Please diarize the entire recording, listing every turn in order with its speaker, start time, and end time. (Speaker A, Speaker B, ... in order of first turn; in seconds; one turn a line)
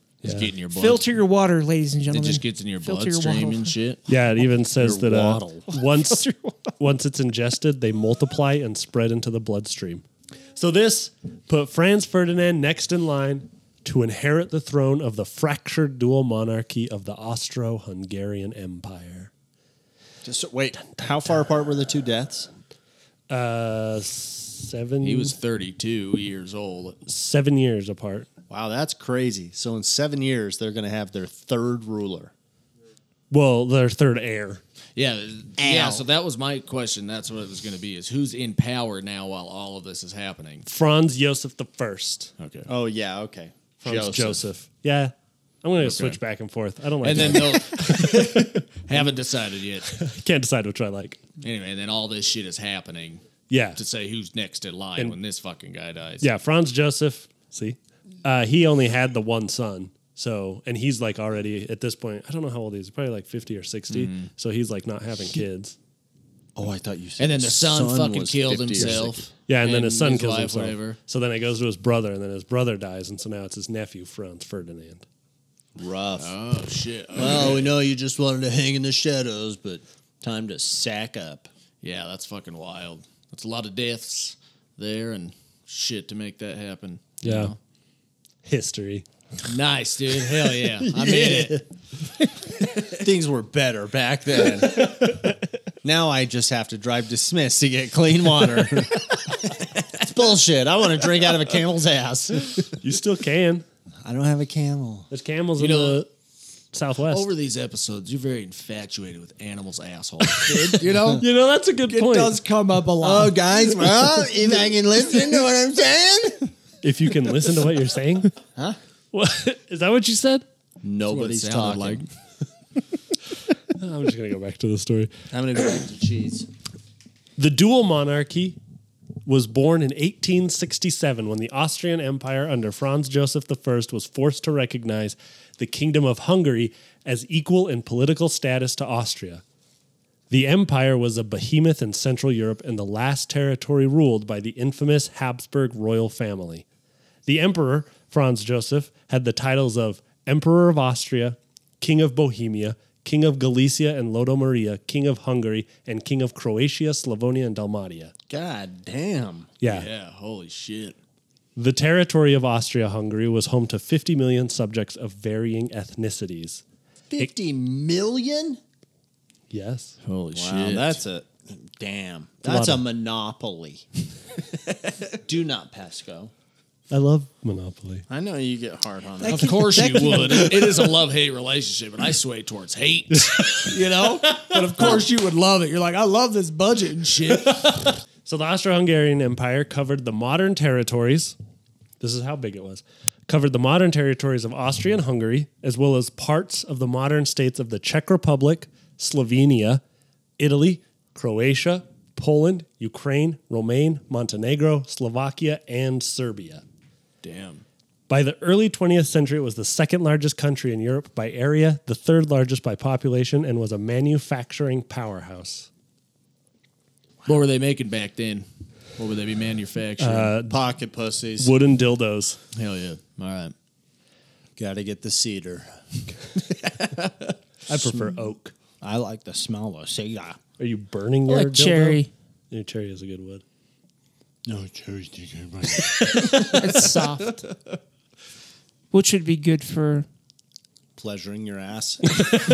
Speaker A: 0.2-0.5
Speaker B: 0.2-1.0
Speaker C: 0.7-3.7
Speaker B: 2.1-4.0
Speaker A: 4.1-6.2
Speaker D: 4.7-5.7
Speaker C: 5.7-6.7
Speaker A: 6.8-19.3
Speaker D: 20.2-22.5
Speaker A: 23.3-25.3
Speaker B: 25.0-27.0
Speaker A: 27.1-28.3
Speaker D: 28.5-32.3
Speaker A: 33.3-34.6
Speaker B: 35.0-40.6
Speaker D: 35.6-36.0
Speaker A: 40.6-42.3
Speaker B: 42.4-42.7
Speaker D: 42.7-44.4
Speaker A: 43.8-49.0
Speaker B: 45.8-46.2
Speaker B: 47.0-49.9
Speaker A: 49.9-51.2
Speaker B: 51.4-53.2
Speaker A: 53.5-53.8
Speaker B: 53.8-56.3
Speaker A: 56.2-65.8
Speaker B: 63.9-64.3
Speaker D: 66.5-69.3
Speaker B: 67.2-71.0
Speaker A: 68.8-75.0
Speaker D: 75.8-76.3
Speaker B: 76.2-77.7
Speaker D: 77.1-81.5
Speaker B: 81.8-87.6
Speaker A: 87.2-87.5
Speaker A: 88.4-89.0
Speaker B: 89.5-91.6
Speaker A: 90.9-91.6
Speaker D: 90.9-91.4
Speaker D: 92.9-95.2
Speaker D: 95.8-102.7
Speaker A: 102.7-103.6
Speaker D: 104.0-105.1
Speaker A: 105.1-106.1
Speaker B: 105.6-106.0
Speaker A: 106.7-107.3
Speaker B: 107.1-111.2
Speaker A: 110.4-112.4
Speaker D: 110.5-111.2
Speaker B: 111.9-113.4
Speaker D: 113.0-116.5
Speaker A: 116.8-118.3
Speaker A: 119.1-120.4
Speaker D: 120.8-122.0
Speaker B: 121.1-122.1
Speaker A: 123.7-125.1
Speaker D: 125.3-126.5
Speaker A: 127.4-128.6
Speaker A: 129.2-139.4
Speaker A: 140.3-146.6
Speaker A: 147.2-158.1
Speaker D: 158.3-159.5
Speaker A: 159.6-159.9
Speaker B: 159.6-160.9
Speaker A: 161.6-166.6
Speaker D: 167.1-168.6
Speaker A: 169.5-169.9
Speaker B: 170.0-171.0
Speaker D: 170.3-173.8
Speaker A: 172.4-172.8
Speaker D: 175.2-176.3
Speaker A: 176.9-178.0
Speaker D: 178.1-179.6
Speaker C: 179.2-180.7
Speaker B: 179.2-187.8
Speaker A: 183.2-183.7
Speaker A: 184.4-184.8
Speaker A: 187.5-191.3
Speaker A: 192.0-199.8
Speaker A: 200.4-206.6
Speaker B: 207.2-207.6
Speaker A: 208.1-215.7
Speaker B: 217.2-218.4
Speaker B: 219.0-220.3
Speaker A: 220.0-220.6
Speaker D: 220.5-221.5
Speaker A: 221.4-222.4
Speaker B: 222.5-223.5
Speaker D: 224.6-225.7
Speaker B: 226.8-227.1
Speaker A: 227.7-228.5
Speaker D: 228.8-230.4
Speaker A: 230.6-233.4
Speaker C: 231.3-232.1
Speaker D: 234.4-236.5
Speaker A: 236.2-236.5
Speaker C: 236.3-237.4
Speaker C: 238.9-240.1
Speaker D: 240.9-242.2